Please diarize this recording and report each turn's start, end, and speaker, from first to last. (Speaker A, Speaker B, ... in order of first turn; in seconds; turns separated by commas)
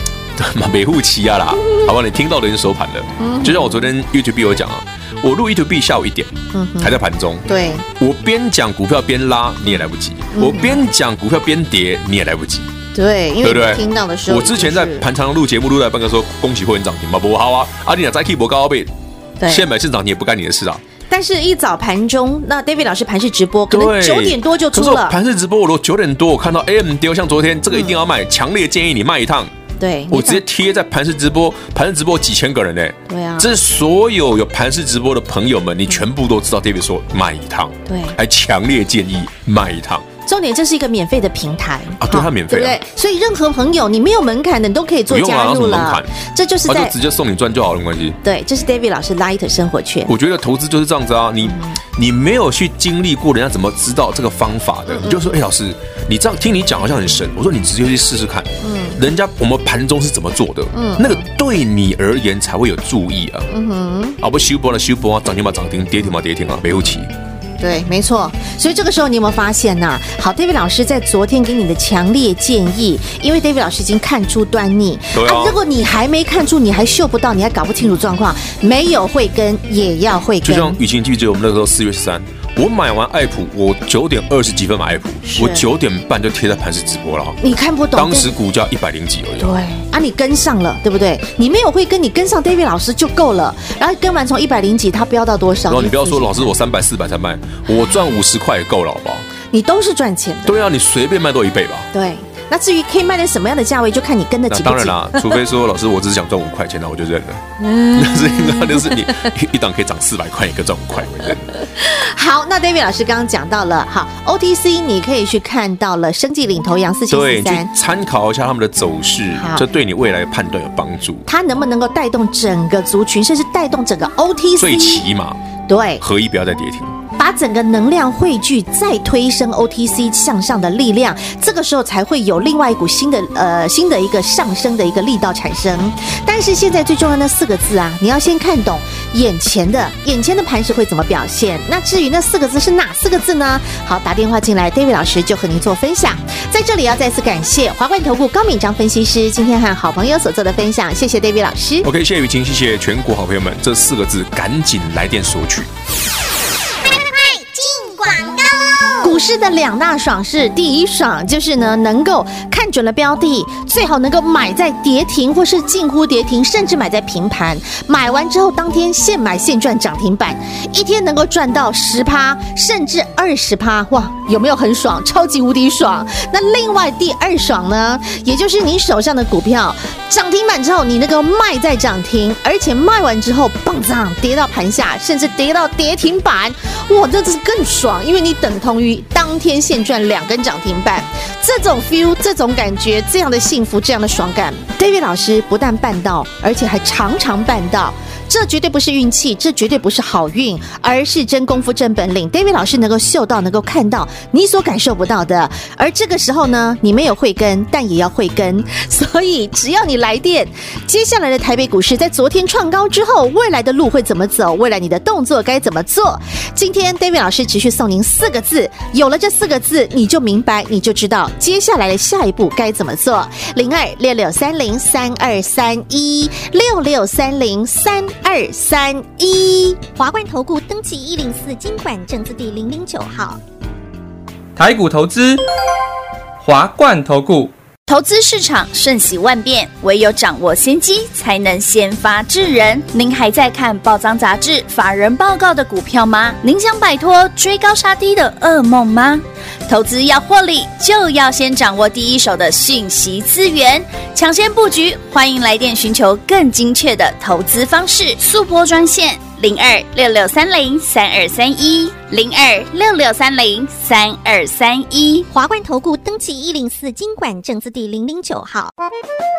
Speaker A: 0.3-12.7, Speaker B: 1.6-1.9, Speaker B: 3.2-3.9, Speaker B: 6.5-7.8, Speaker B: 10.3-10.8, Speaker B: 12.9-15.1, Speaker A: 13.4-18.9, Speaker B: 19.4-19.7, Speaker A: 19.4-20.8, Speaker B: 21.1-25.2, Speaker A: 23.7-29.5, Speaker B: 27.7-28.0, Speaker B: 29.8-30.4, Speaker A: 30.1-40.0, Speaker B: 33.1-33.5, Speaker B: 37.9-38.2, Speaker B: 40.2-46.9, Speaker A: 42.0-42.8, Speaker A: 45.1-46.1, Speaker A: 46.7-48.2, Speaker B: 48.2-50.1, Speaker A: 50.1-63.5, Speaker B: 51.4-51.8, Speaker B: 54.9-55.4, Speaker B: 58.6-59.0, Speaker B: 60.7-61.3, Speaker B: 63.5-64.2, Speaker A: 64.2-67.1, Speaker B: 67.6-80.8, Speaker A: 75.1-75.6, Speaker A: 80.4-89.5, Speaker B: 85.2-85.7, Speaker B: 87.4-88.3, Speaker B: 89.4-96.5, Speaker A: 95.7-99.2, Speaker B: 97.7-98.0, Speaker B: 99.5-100.6, Speaker A: 100.5-101.9, Speaker B: 101.9-105.4, Speaker A: 104.5-111.5, Speaker B: 107.6-109.3, Speaker B: 111.5-117.7, Speaker A: 117.1-121.3, Speaker B: 119.3-119.6, Speaker B: 121.3-125.0, Speaker A: 124.6-125.4, Speaker B: 125.7-126.0, Speaker A: 126.0-127.0, Speaker B: 127.2-151.9, Speaker A: 151.8-155.7, Speaker C: 157.0-158.4, Speaker B: 159.0-229.8, Speaker C: 229.9-233.4, Speaker D: 234.6-235.4, Speaker D: 236.4-237.5, Speaker E: 237.9-265.3, Speaker C: 265.3-268.7